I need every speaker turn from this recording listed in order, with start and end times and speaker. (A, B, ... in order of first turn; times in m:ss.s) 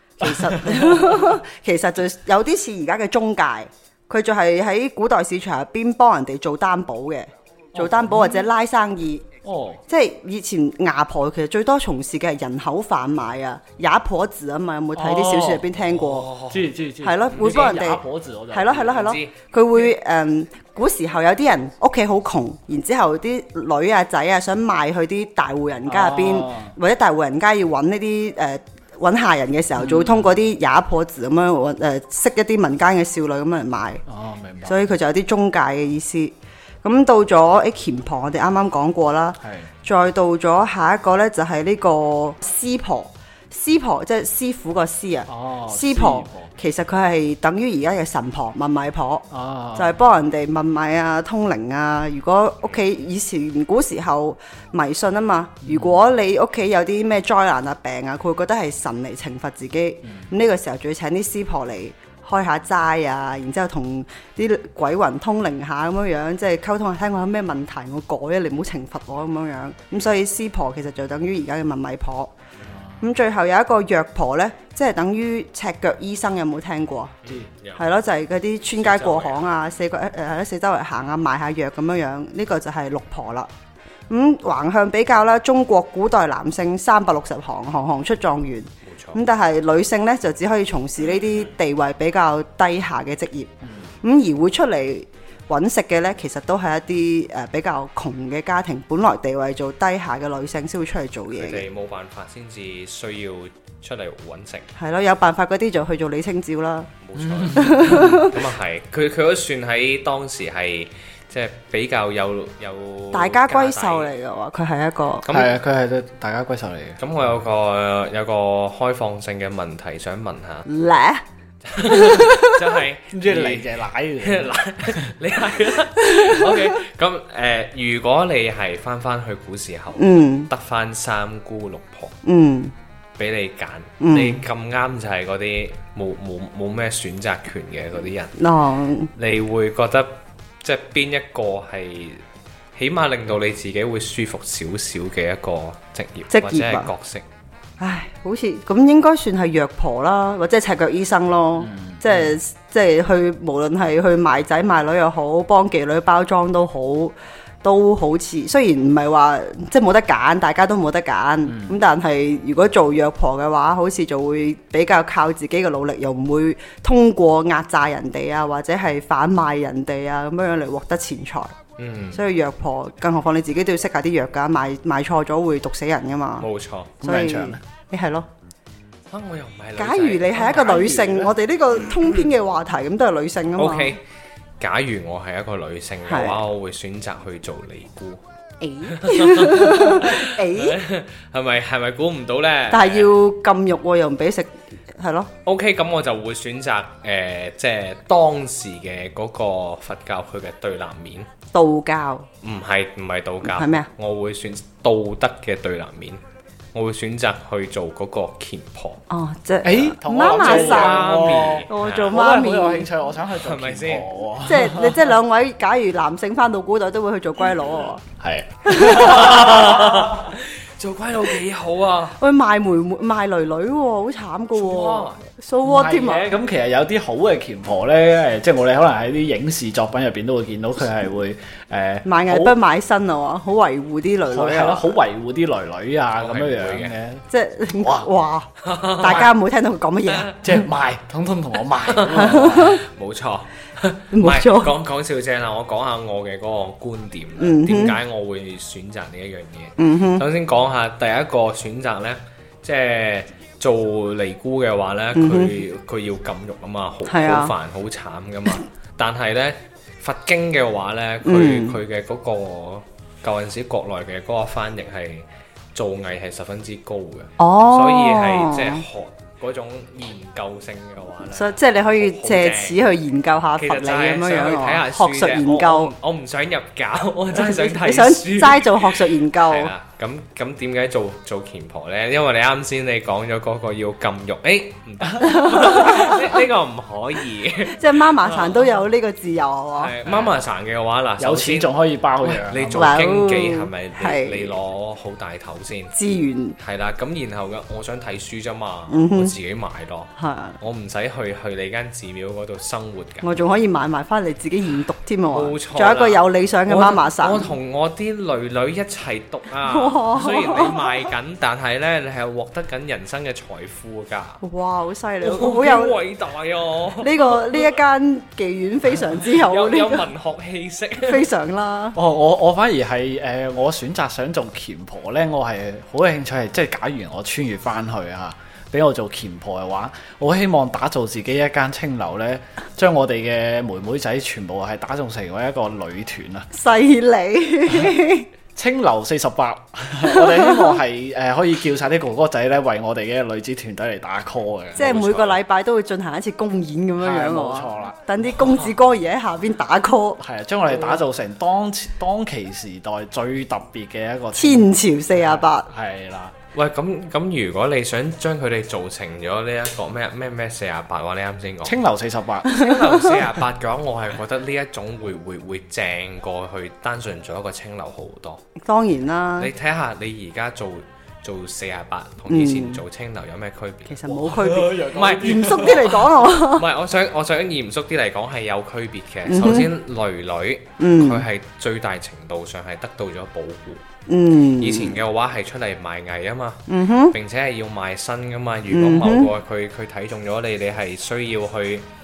0:00.2-0:01.4 A
0:00.2-0:09.2 B
0:07.8-0:08.5 A
0:09.4-0:09.8 A
0:09.9-0:16.3 B
0:15.0-0:19.2 A
0:16.2-0:16.7 C
0:17.0-0:34.0 B
0:17.4-0:17.8 C
0:18.8-0:19.3 C
0:25.9-0:26.8 A
0:29.8-0:30.3 A
0:34.1-0:34.9 A
0:34.7-0:49.2 B
0:39.4-0:39.7 A
0:45.3-0:46.5 A
0:49.3-0:50.0 A
0:49.8-1:12.3 B
0:55.6-0:56.0 A
1:00.0-1:00.3 A
1:13.0-1:17.2 B
1:17.2-1:17.8 C
1:17.8-1:23.5 B
1:18.8-1:19.4 C
1:24.1-1:33.5 B
1:28.8-1:29.2 C
1:34.0-1:41.6 B
1:41.3-1:44.7 C
1:44.8-1:46.9 B
1:47.0-1:54.1 C
1:47.2-1:48.2 A
1:47.6-1:48.4 B
1:53.1-1:55.2 B
1:55.2-1:55.5 C
1:55.3-1:57.0 A
1:57.0-2:00.7 C
2:00.7-2:01.2 B
2:01.6-2:12.2 C
2:01.8-2:02.6 B
2:03.1-2:05.1 A
2:06.0-2:06.7 B
2:10.0-2:10.5 B
2:12.2-2:12.7 B
2:13.2-2:18.4 C
2:14.0-2:14.4 B
2:18.4-2:19.1 B
2:19.2-2:22.2 C
2:22.8-2:27.2 C
2:26.3-2:26.9 B
2:27.8-2:51.6 B
2:31.6-2:32.4 A
2:41.5-2:41.8 A
2:51.8-2:52.2 C
2:52.1-2:56.5 B
2:56.4-2:57.0 C
2:57.0-2:57.6 A
2:57.0-2:58.3 B
2:59.1-3:01.3 C
2:59.8-3:04.0 B
3:01.8-3:02.2 C
3:03.6-3:04.0 C
3:04.6-3:08.2 C
3:06.1-3:06.4 B
3:08.6-3:10.8 B
3:08.9-3:13.1 C
3:12.7-3:15.3 B
3:15.5-3:21.3 C
3:21.5-3:22.3 B
3:22.4-3:26.2 C
3:23.4-3:23.9 B
3:26.7-3:29.0 C
3:29.1-3:32.9 B
3:29.6-3:35.1 A
3:30.2-3:32.2 C
3:33.3-3:34.1 C
3:34.4-3:38.0 B
3:38.2-3:40.2 A
3:38.6-3:39.8 B
3:38.8-3:42.2 C
3:42.2-3:46.4 B
3:44.5-3:45.2 C
3:45.6-3:52.6 A
3:52.0-3:55.0 B
3:54.3-3:58.1 A
3:56.2-3:57.0 C
3:57.3-4:00.4 B
3:58.6-3:59.3 C
4:00.1-4:00.4 C
4:00.4-4:02.8 A
4:01.9-4:32.8 C
4:02.1-4:02.8 B
4:04.1-4:04.8 B
4:07.4-4:08.0 B
4:09.8-4:10.2 B
4:15.2-4:15.5 B
4:17.1-4:17.5 B
4:21.2-4:21.8 B
4:27.4-4:28.8 B
4:31.3-4:35.9 B
4:33.6-4:48.8 C
4:37.4-4:39.7 B
4:45.2-4:46.3 B
4:47.6-4:49.9 B
4:49.8-4:56.0 C
4:50.1-4:50.3 A
4:51.2-4:53.0 A
4:52.7-4:54.5 B
4:55.9-4:56.6 B
4:56.6-5:03.3 C
4:58.9-4:59.3 B
5:00.2-5:00.6 B
5:03.2-5:07.5 B
5:05.3-5:14.4 C
5:09.6-5:11.0 B
5:14.4-5:16.0 B
5:15.2-5:17.8 C
5:17.0-5:20.1 B
5:19.1-5:21.3 C
5:21.0-5:22.0 B
5:22.0-5:36.5 A
5:36.5-5:38.3 B
5:38.6-5:45.2 A
5:40.0-5:40.8 B
5:44.8-5:50.2 B
5:44.8-5:45.4 C
5:47.0-5:48.0 A
5:50.2-5:56.4 A
5:54.3-5:55.7 B
5:56.5-6:01.8 C
6:01.6-6:02.6 A
6:02.5-6:08.4 C
6:02.6-6:03.0 B
6:08.6-6:09.5 B
6:09.4-6:14.1 C
6:12.3-6:12.8 B
6:13.9-6:16.7 B
6:14.1-6:16.0 A
6:14.8-6:23.8 C
6:19.3-6:19.7 B
6:20.8-6:21.2 B
6:24.1-6:25.0 B
6:24.6-6:31.9 C
6:26.7-6:27.2 B
6:28.7-6:29.3 B